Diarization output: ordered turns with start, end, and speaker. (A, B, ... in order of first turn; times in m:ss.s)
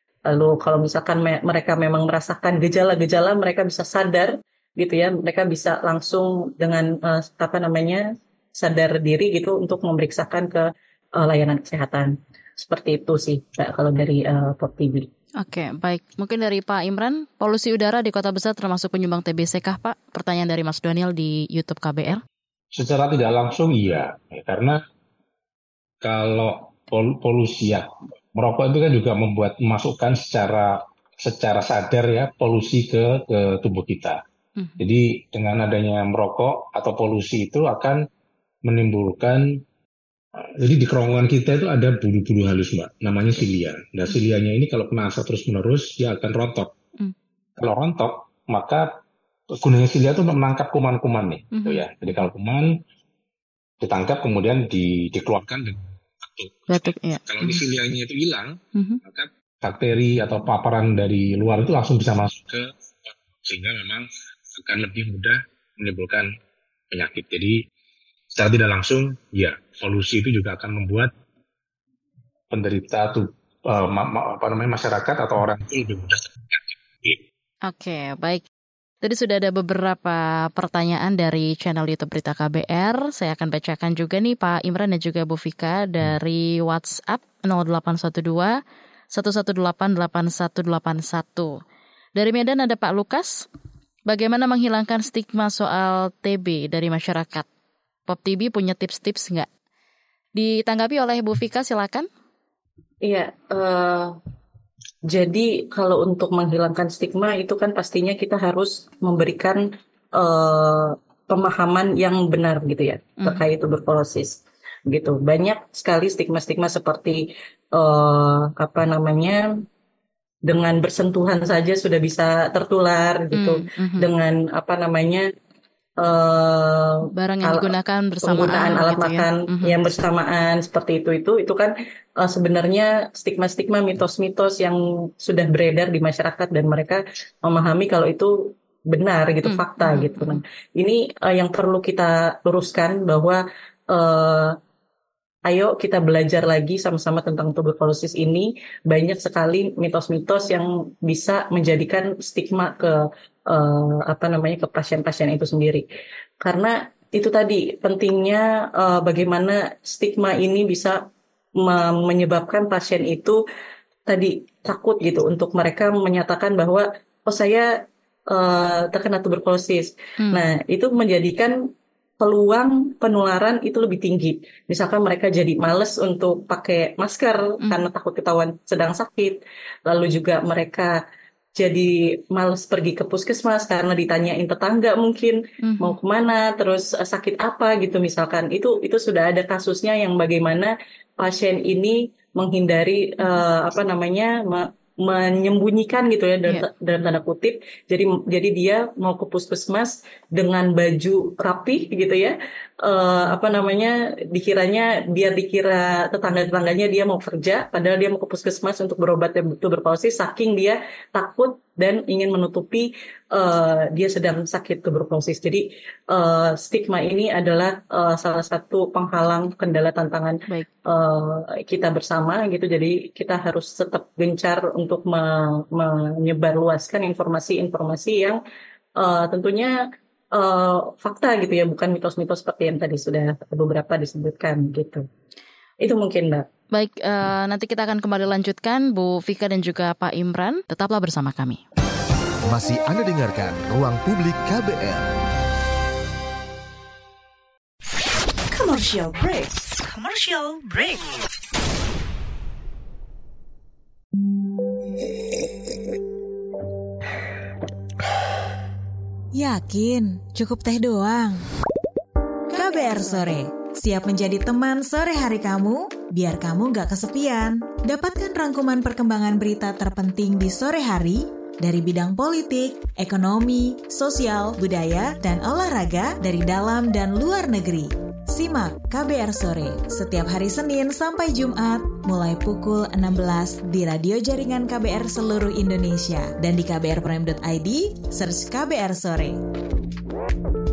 0:00.3-0:08.0 A
0:08.6-0:10.6 A
0:11.2-0:15.1 A
0:15.4-0:22.2 B
0:22.7-0:24.8 C
0:26.0-0:34.2 C
0:34.8-0:38.0 C
0:38.6-0:39.6 C
0:40.4-0:46.7 C
0:47.6-0:49.0 C
0:49.5-0:52.8 C
0:51.5-0:51.8 B
0:53.8-1:06.3 C
0:56.7-0:57.6 B
0:58.8-0:59.0 B
1:06.9-1:07.6 C
1:08.4-1:11.1 C
1:12.5-1:17.2 C
1:17.7-1:18.4 B
1:19.0-1:28.6 B
1:29.1-1:31.6 B
1:32.2-1:33.5 B
1:34.1-1:37.5 B
1:38.1-1:39.5 B
1:40.4-1:42.1 B
1:43.0-1:44.2 A
1:45.1-1:49.6 A
1:50.1-1:59.5 A
2:00.5-2:05.3 A
2:03.3-2:04.1 B
2:06.0-2:07.7 A
2:07.1-2:09.8 B
2:08.2-2:24.6 A
2:19.4-2:20.4 B
2:25.5-2:35.8 A
2:36.4-2:41.0 A
2:41.6-2:43.4 A
2:44.1-2:47.7 A
2:48.3-2:51.6 A
2:50.2-2:50.5 B
2:52.2-3:00.9 A
2:57.6-2:57.9 B
3:01.6-3:48.4 A
3:05.6-3:06.0 B
3:49.0-3:49.7 A
3:50.3-3:55.1 A
3:55.8-3:56.5 A
3:56.7-4:01.6 B
4:02.5-4:05.1 D
4:08.5-4:11.3 E
4:19.3-4:21.4 F
4:22.5-4:49.4 F